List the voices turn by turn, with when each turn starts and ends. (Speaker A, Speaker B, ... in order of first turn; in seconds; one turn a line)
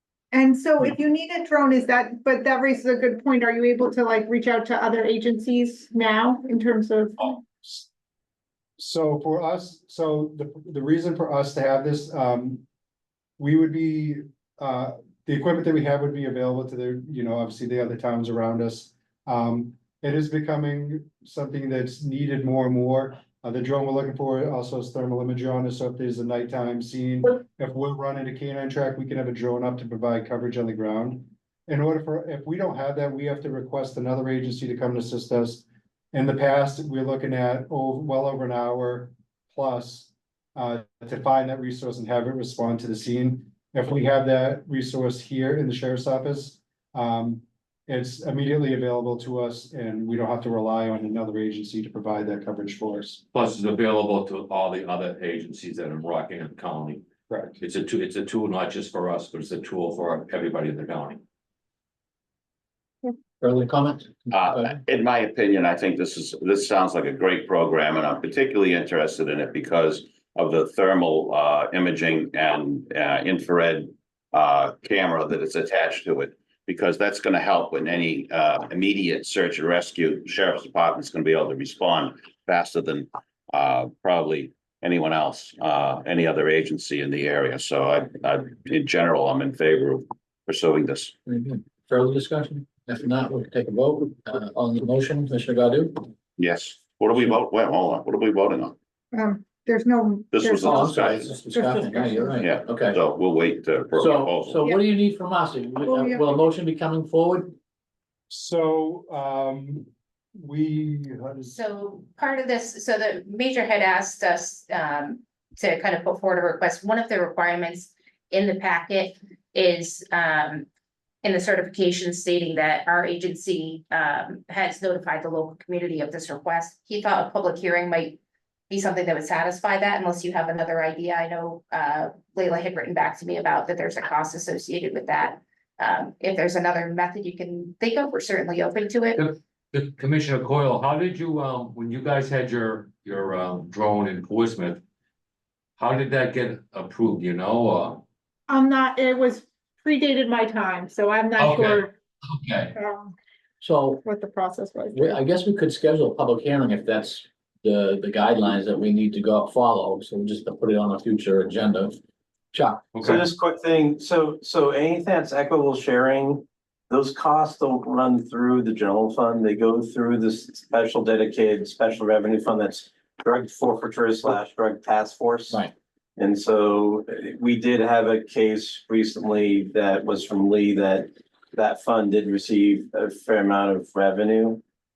Speaker A: 0.3-7.4
Speaker B: 8.8-12.6
Speaker B: 13.4-53.2
Speaker C: 53.3-61.2
Speaker D: 63.4-64.8
Speaker E: 64.3-91.1
Speaker D: 91.3-96.1
Speaker E: 96.4-98.8
Speaker A: 99.1-102.5
Speaker E: 100.3-101.4
Speaker D: 100.7-103.0
Speaker E: 102.4-104.7
Speaker D: 104.0-107.5
Speaker A: 105.9-106.3
Speaker B: 108.3-111.5
Speaker F: 111.5-120.7
Speaker F: 121.2-128.2
Speaker F: 128.7-139.2
Speaker C: 139.2-144.8
Speaker C: 145.8-148.0
Speaker A: 148.5-151.9
Speaker C: 151.4-152.8
Speaker A: 152.8-153.1
Speaker D: 153.6-154.0
Speaker A: 154.1-155.2
Speaker D: 154.9-162.0
Speaker D: 162.5-163.0
Speaker C: 162.9-163.2
Speaker G: 163.0-175.6
Speaker G: 176.2-184.6